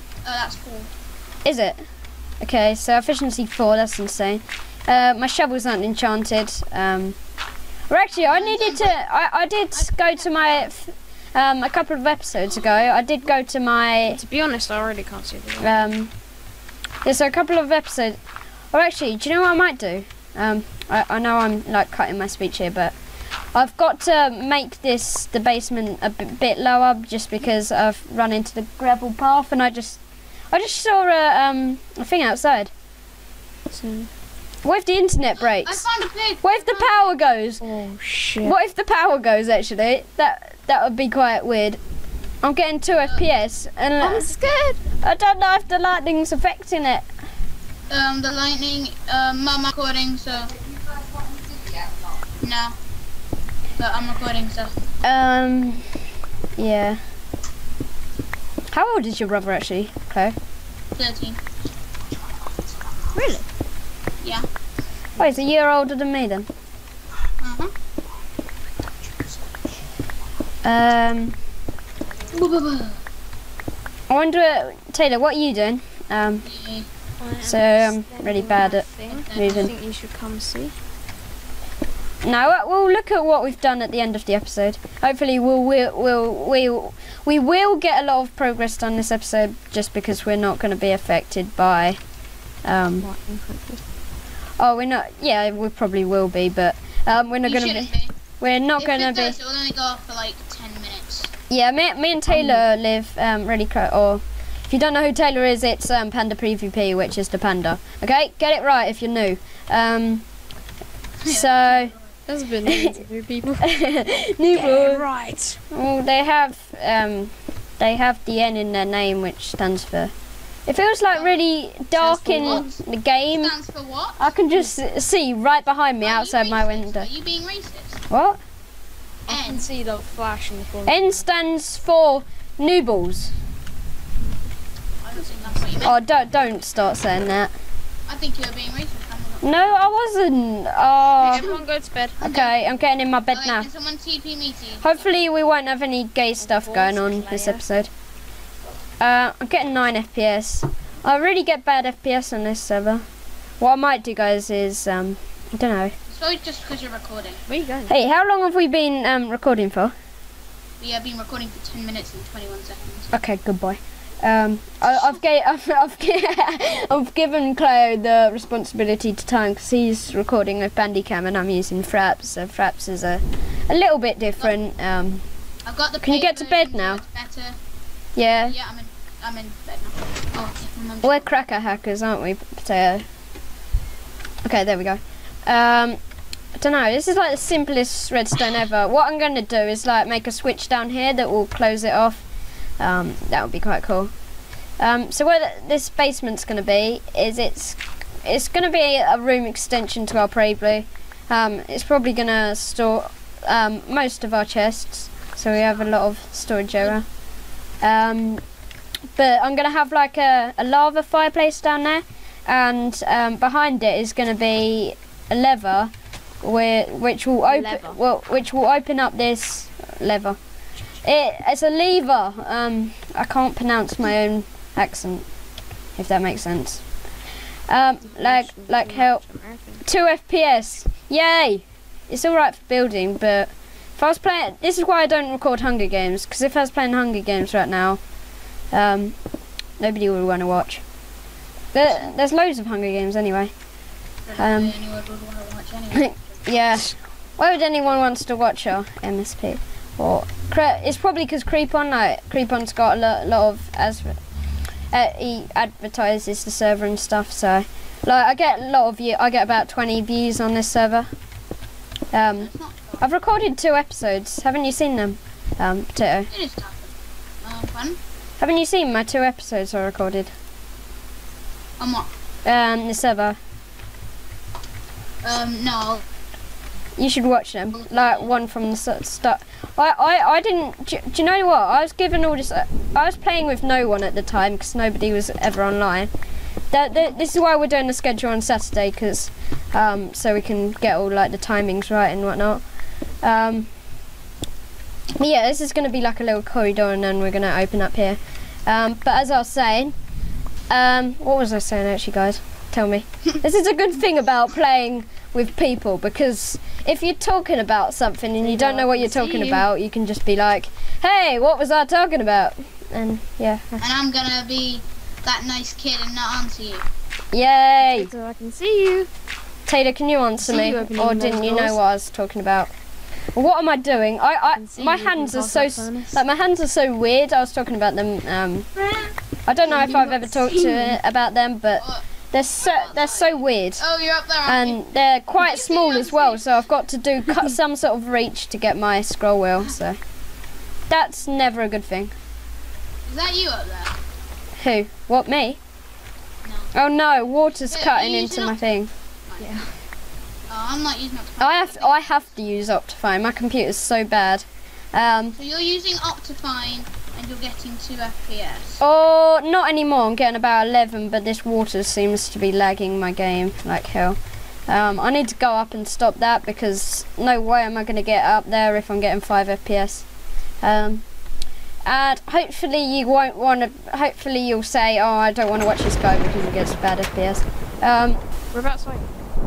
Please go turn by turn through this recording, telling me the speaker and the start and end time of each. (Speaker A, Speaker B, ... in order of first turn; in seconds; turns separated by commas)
Speaker A: 0.2-0.9, Speaker B: 1.4-1.8, Speaker B: 2.4-7.2, Speaker B: 7.9-14.2, Speaker A: 8.2-9.0, Speaker A: 9.7-10.7, Speaker C: 14.1-15.9, Speaker B: 15.6-16.1, Speaker B: 17.0-18.2, Speaker B: 18.7-22.9, Speaker B: 23.5-30.0, Speaker B: 30.5-32.7, Speaker C: 33.7-34.1, Speaker B: 34.6-35.9, Speaker A: 35.4-37.0, Speaker B: 36.4-37.6, Speaker C: 37.6-38.5, Speaker B: 38.4-41.8, Speaker B: 42.4-44.3, Speaker A: 43.0-43.2, Speaker C: 44.0-44.8, Speaker B: 44.9-47.1, Speaker A: 47.9-50.5, Speaker A: 52.4-52.8, Speaker A: 53.8-54.8, Speaker B: 55.0-56.0, Speaker B: 56.6-57.0, Speaker B: 58.7-60.4, Speaker A: 61.0-61.4, Speaker C: 63.1-63.4, Speaker A: 64.2-64.5, Speaker C: 65.2-65.5, Speaker B: 65.2-66.5, Speaker A: 67.4-67.7, Speaker B: 70.6-71.4, Speaker A: 72.3-73.0, Speaker B: 74.1-76.5, Speaker A: 76.4-76.9, Speaker C: 77.2-80.8, Speaker B: 77.4-79.7, Speaker A: 79.1-79.7, Speaker B: 82.2-92.0, Speaker B: 92.7-93.1, Speaker C: 93.0-93.8, Speaker B: 94.6-99.4, Speaker A: 97.4-98.2, Speaker A: 98.8-101.3, Speaker B: 101.5-110.2, Speaker C: 102.3-102.7, Speaker A: 111.2-112.2, Speaker B: 111.3-112.0, Speaker C: 112.3-113.7, Speaker B: 112.7-113.0, Speaker B: 113.6-115.1, Speaker C: 114.5-115.6, Speaker B: 115.7-120.1, Speaker B: 120.7-123.5, Speaker A: 121.1-121.4, Speaker C: 121.9-122.7, Speaker A: 122.3-122.8, Speaker A: 123.3-124.3, Speaker B: 124.2-127.1, Speaker A: 126.0-128.0, Speaker B: 128.1-128.4, Speaker C: 129.3-131.3, Speaker A: 129.3-129.7, Speaker B: 130.9-133.3, Speaker A: 135.0-136.0, Speaker C: 135.3-135.6, Speaker B: 135.8-137.5, Speaker A: 138.1-139.8, Speaker B: 139.4-141.5, Speaker C: 141.2-142.2, Speaker A: 141.3-141.7, Speaker A: 142.2-142.6, Speaker B: 142.2-143.7, Speaker A: 143.3-145.1, Speaker B: 144.8-147.9, Speaker C: 146.4-147.6, Speaker B: 149.0-153.1, Speaker B: 153.6-155.9, Speaker A: 156.1-157.4, Speaker C: 157.5-157.9, Speaker B: 157.9-159.9, Speaker A: 160.8-163.1, Speaker B: 163.1-175.2, Speaker A: 175.7-177.6, Speaker B: 176.0-177.0, Speaker B: 178.2-178.6, Speaker A: 178.5-181.3, Speaker B: 181.0-183.1, Speaker B: 184.4-186.0, Speaker B: 186.6-192.2, Speaker B: 192.8-194.1, Speaker B: 194.8-207.1, Speaker B: 207.8-208.4, Speaker B: 209.2-215.9, Speaker B: 216.4-220.4, Speaker C: 217.5-218.0, Speaker B: 221.0-225.3, Speaker B: 226.0-226.9, Speaker B: 227.7-229.3, Speaker C: 228.0-229.8, Speaker B: 229.8-238.0, Speaker B: 238.7-239.2, Speaker B: 239.8-240.8, Speaker B: 241.7-243.5, Speaker A: 244.3-246.6, Speaker B: 244.4-244.8, Speaker B: 245.9-254.2, Speaker B: 254.9-261.1, Speaker B: 262.1-266.3, Speaker A: 262.4-263.1, Speaker A: 266.3-268.0, Speaker B: 268.4-270.3, Speaker A: 271.8-272.1, Speaker B: 272.4-273.4, Speaker A: 275.2-276.0, Speaker B: 277.0-286.1, Speaker A: 277.7-278.3, Speaker B: 286.7-292.6, Speaker B: 293.2-293.7, Speaker B: 295.2-299.9, Speaker B: 300.7-313.8, Speaker C: 308.4-309.6, Speaker A: 313.8-316.9, Speaker B: 317.3-318.1, Speaker C: 317.8-319.1, Speaker B: 319.7-322.7, Speaker C: 320.4-321.8, Speaker B: 323.3-328.7, Speaker C: 324.5-326.2, Speaker B: 329.5-333.8, Speaker C: 329.7-331.0, Speaker A: 331.8-332.1, Speaker A: 332.6-334.8, Speaker B: 334.4-340.0, Speaker A: 335.4-336.5, Speaker B: 340.9-342.1, Speaker A: 343.1-344.0, Speaker B: 344.6-345.6, Speaker A: 346.4-346.7, Speaker B: 346.7-348.9, Speaker A: 347.6-348.6, Speaker A: 349.3-349.6, Speaker C: 349.4-349.8, Speaker A: 350.5-352.4, Speaker B: 351.4-355.4, Speaker A: 355.4-358.8, Speaker B: 358.8-370.1, Speaker B: 370.6-371.0, Speaker B: 371.9-378.2, Speaker C: 378.5-379.1